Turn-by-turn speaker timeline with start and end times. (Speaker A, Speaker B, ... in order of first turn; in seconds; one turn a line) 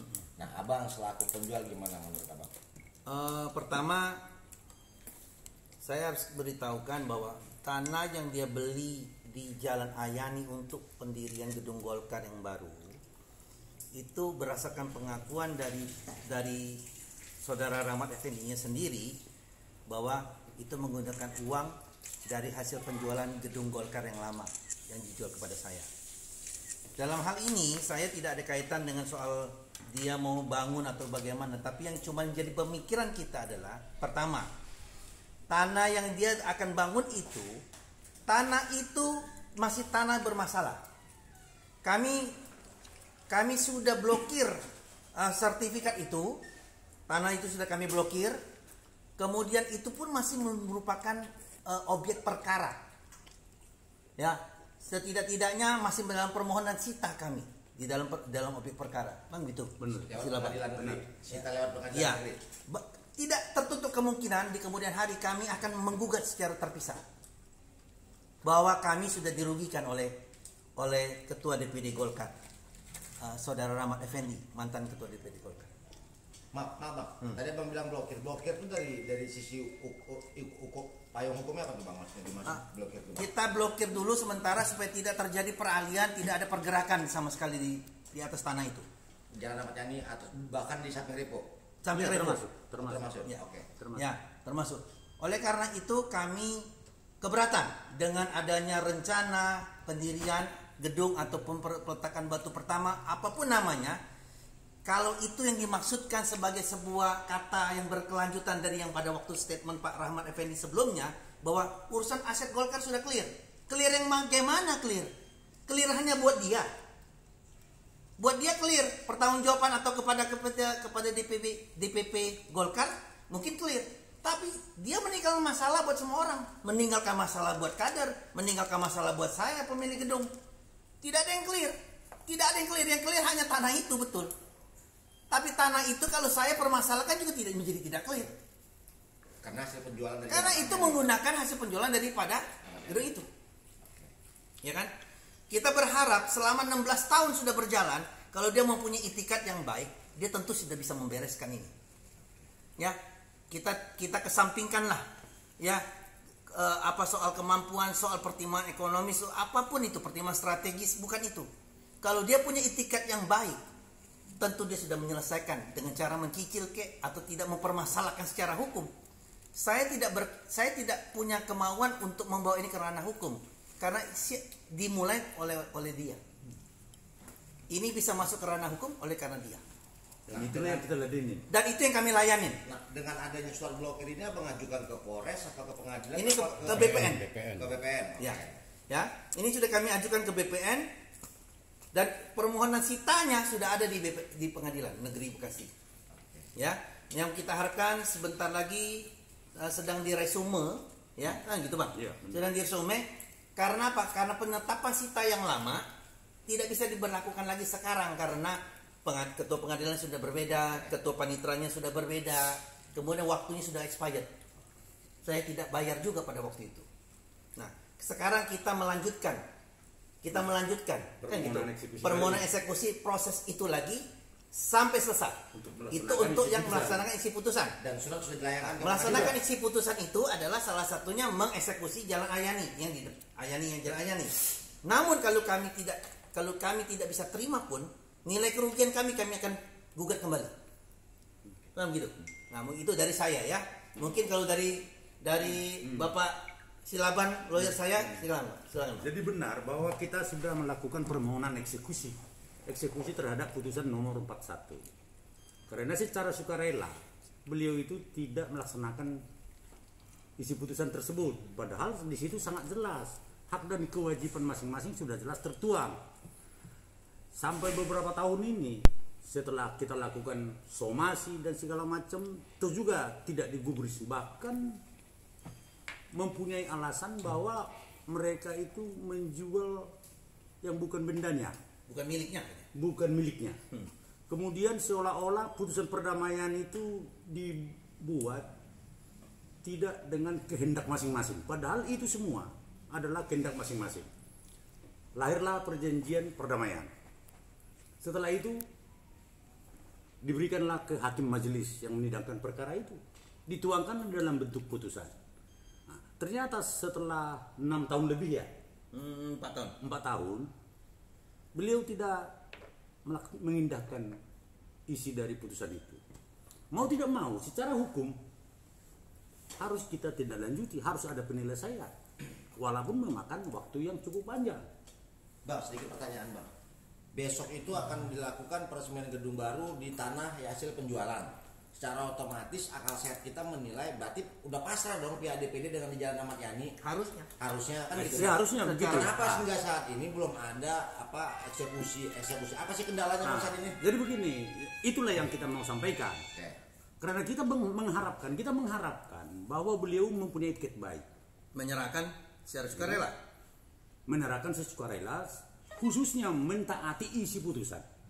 Speaker A: 0.4-2.5
Speaker B: 3.1-4.2
Speaker B: 5.8-13.0
Speaker B: 14.0-16.8
Speaker B: 17.4-19.2
Speaker B: 19.9-21.8
Speaker B: 22.3-25.9
Speaker B: 27.0-34.5
Speaker B: 35.5-37.5
Speaker B: 38.3-40.8
Speaker B: 41.8-42.4
Speaker B: 43.3-44.6
Speaker B: 45.1-46.4
Speaker B: 47.1-48.4
Speaker B: 49.2-52.8
Speaker B: 54.2-60.7
Speaker C: 59.8-61.0
Speaker A: 60.1-62.4
Speaker B: 61.9-67.0
Speaker B: 68.4-70.2
Speaker B: 70.8-72.3
Speaker B: 73.2-75.7
Speaker A: 76.5-83.2
Speaker B: 83.2-88.9
Speaker A: 89.3-91.5
Speaker B: 91.8-92.4
Speaker C: 91.9-93.2
Speaker A: 92.8-93.7
Speaker C: 93.8-94.1
Speaker B: 93.9-96.7
Speaker B: 97.2-104.0
Speaker B: 104.8-115.1
Speaker B: 115.7-116.7
Speaker B: 118.2-130.3
Speaker B: 131.0-131.8
Speaker B: 132.3-134.3
Speaker B: 135.3-138.3
Speaker A: 139.4-141.1
Speaker B: 140.3-143.3
Speaker A: 142.6-143.1
Speaker B: 144.6-144.9
Speaker B: 145.5-151.7
Speaker B: 153.5-155.0
Speaker B: 156.5-161.5
Speaker B: 162.0-163.6
Speaker B: 164.4-168.9
Speaker B: 169.6-176.2
Speaker B: 177.7-179.6
Speaker C: 180.3-181.5
Speaker A: 180.3-180.8
Speaker B: 180.4-180.8
Speaker B: 181.5-182.6
Speaker A: 182.7-188.6
Speaker B: 186.2-187.2
Speaker C: 186.7-187.7
Speaker B: 188.2-190.9
Speaker B: 191.9-195.7
Speaker B: 196.6-205.8
Speaker C: 201.9-202.4
Speaker B: 206.5-214.3
Speaker B: 215.2-216.8
Speaker B: 217.6-219.4
Speaker B: 220.2-225.4
Speaker C: 221.2-222.4
Speaker C: 225.5-227.0
Speaker B: 225.9-227.8
Speaker A: 227.8-229.3
Speaker B: 228.8-234.3
Speaker B: 234.8-240.5
Speaker B: 241.8-249.1
Speaker C: 249.0-254.8
Speaker C: 255.7-259.2
Speaker C: 260.4-266.0
Speaker C: 267.3-274.8
Speaker C: 276.1-279.9
Speaker C: 280.6-281.6
Speaker B: 281.9-282.7
Speaker C: 282.7-283.6
Speaker C: 284.3-288.5
Speaker C: 289.6-294.1
Speaker C: 295.1-296.9
Speaker C: 298.0-298.6
Speaker C: 300.2-305.1
Speaker C: 305.9-308.5
Speaker B: 308.9-309.8
Speaker C: 309.8-310.5
Speaker C: 311.6-312.3
Speaker C: 313.1-314.1
Speaker C: 314.9-316.0
Speaker C: 316.7-318.2
Speaker C: 319.6-321.9
Speaker C: 322.6-324.6
Speaker A: 325.4-326.5
Speaker A: 327.1-336.8
Speaker B: 336.8-337.3
Speaker A: 337.4-343.8
Speaker C: 337.9-339.5
Speaker B: 338.0-339.2
Speaker C: 343.2-346.2
Speaker C: 347.0-351.1
Speaker B: 351.5-353.1
Speaker C: 354.1-357.9